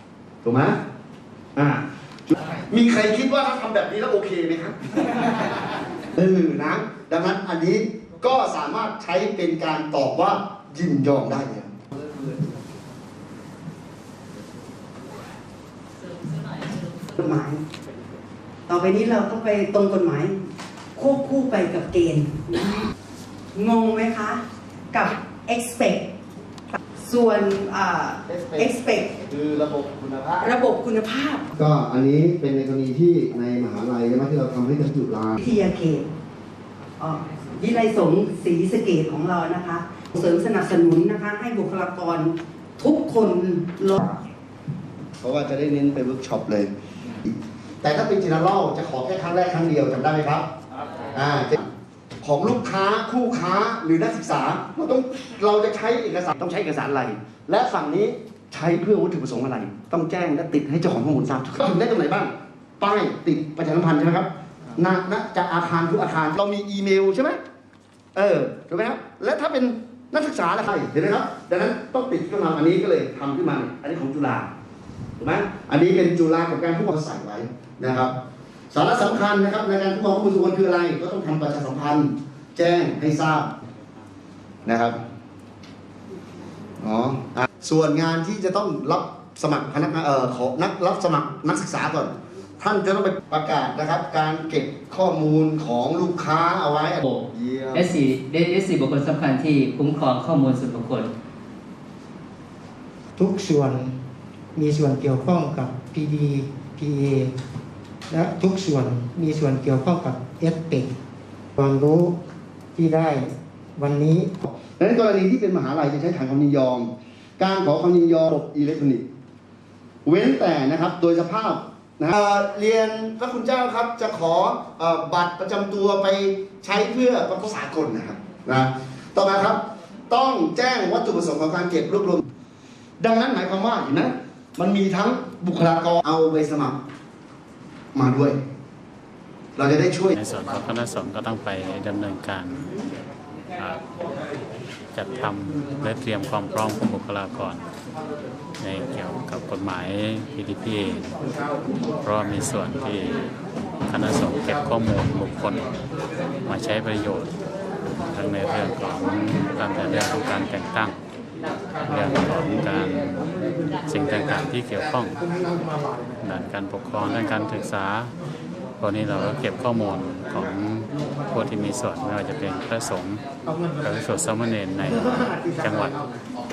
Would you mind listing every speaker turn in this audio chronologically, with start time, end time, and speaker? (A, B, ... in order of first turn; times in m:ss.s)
0:00.4-0:00.8 A
0:01.6-0:05.3 A
0:06.2-0:11.7 A
0:16.5-0:17.6 B
0:18.7-0:20.4 B
0:21.0-0:22.9 B
0:23.5-0:26.1 B
0:26.7-0:29.1 B
0:28.2-0:30.5 A
0:30.4-0:31.4 B
0:31.6-0:35.4 A
0:35.4-0:36.1 B
0:37.0-0:44.0 B
0:45.2-0:46.7 A
0:47.2-0:50.5 A
0:51.1-0:51.7 A
0:52.2-1:07.4 A
1:08.2-1:14.5 A
1:15.2-1:18.2 A
1:18.7-1:23.5 A
1:24.7-1:25.0 A
1:26.8-1:37.9 A
1:37.0-1:41.1 C
1:43.2-1:43.9 D
1:44.6-1:47.3 D
1:48.1-1:50.9 D
1:51.6-1:52.2 D
1:52.8-1:54.5 D
1:54.6-1:59.0 A
2:00.0-2:12.2 A
2:13.0-2:16.8 A
2:17.9-2:18.4 A
2:19.6-2:20.1 A
2:20.1-2:22.7 E
2:23.6-2:23.8 E
2:24.9-2:27.6 E
2:28.6-2:31.1 E
2:32.0-2:33.3 E
2:33.9-2:35.7 E
2:36.4-2:37.3 E
2:38.1-2:41.0 E
2:41.8-2:43.3 E
2:43.9-2:45.2 E
2:46.2-2:48.1 E
2:48.8-2:53.2 E
2:53.8-2:56.0 E